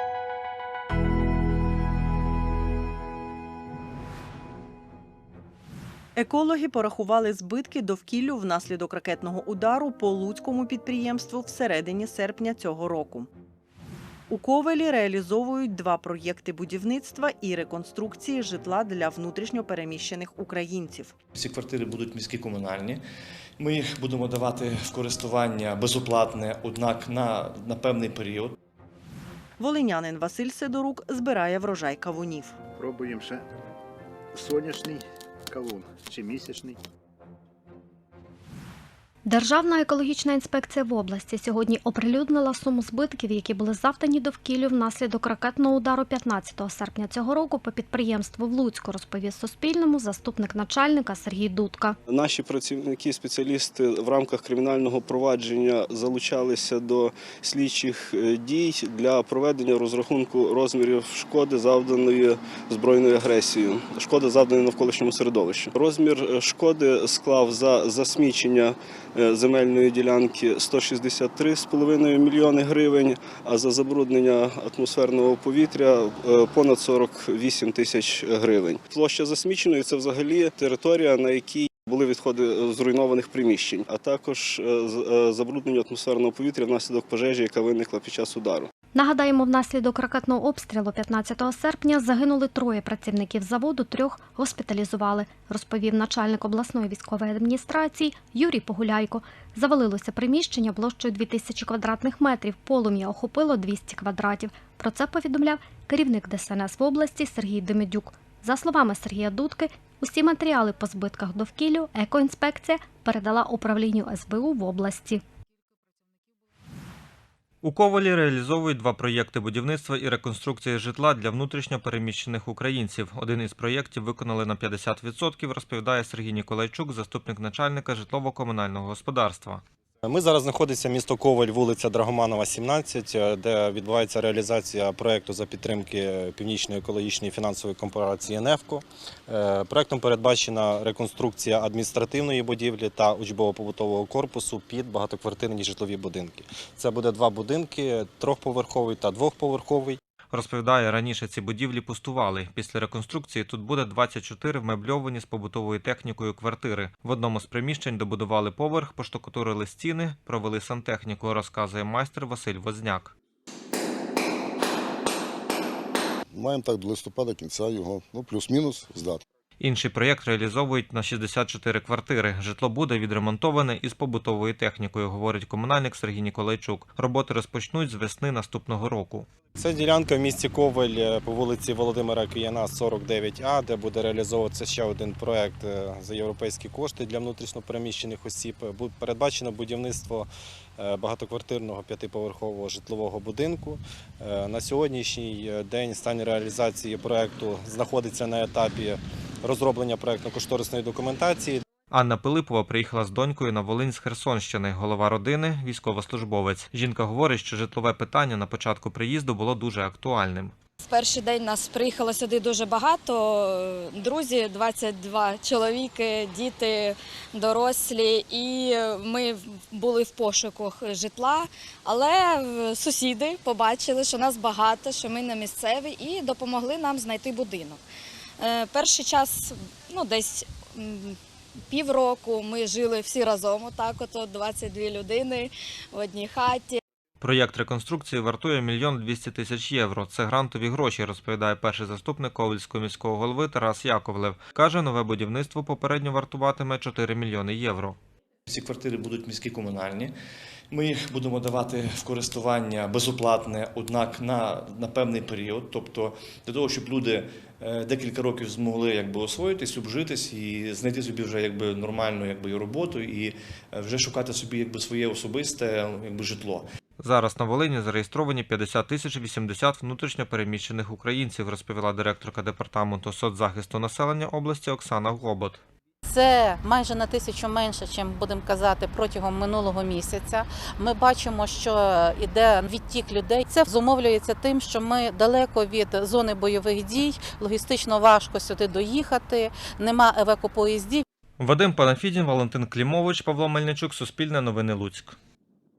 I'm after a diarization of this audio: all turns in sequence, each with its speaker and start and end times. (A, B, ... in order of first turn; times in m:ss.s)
0:06.2-0:13.3 A
0:14.3-0:21.1 A
0:21.3-0:23.0 B
0:23.6-0:28.6 B
0:29.6-0:32.6 A
0:32.7-0:33.4 C
0:34.3-0:36.8 C
0:39.2-0:52.0 D
0:52.1-1:28.7 E
1:28.9-1:55.2 D
1:57.6-2:09.6 F
2:10.0-2:30.0 G
2:30.3-2:43.1 F
2:46.3-2:49.2 H
2:49.6-2:59.3 F
2:59.5-3:21.6 G
3:21.9-3:30.5 F
3:30.8-3:47.8 I
3:48.4-3:51.2 I
3:51.7-3:56.8 I
3:57.2-4:08.0 F
4:08.5-4:10.1 B
4:10.7-4:26.6 B
4:27.0-4:35.6 F
4:36.0-4:51.0 J
4:51.4-4:55.2 F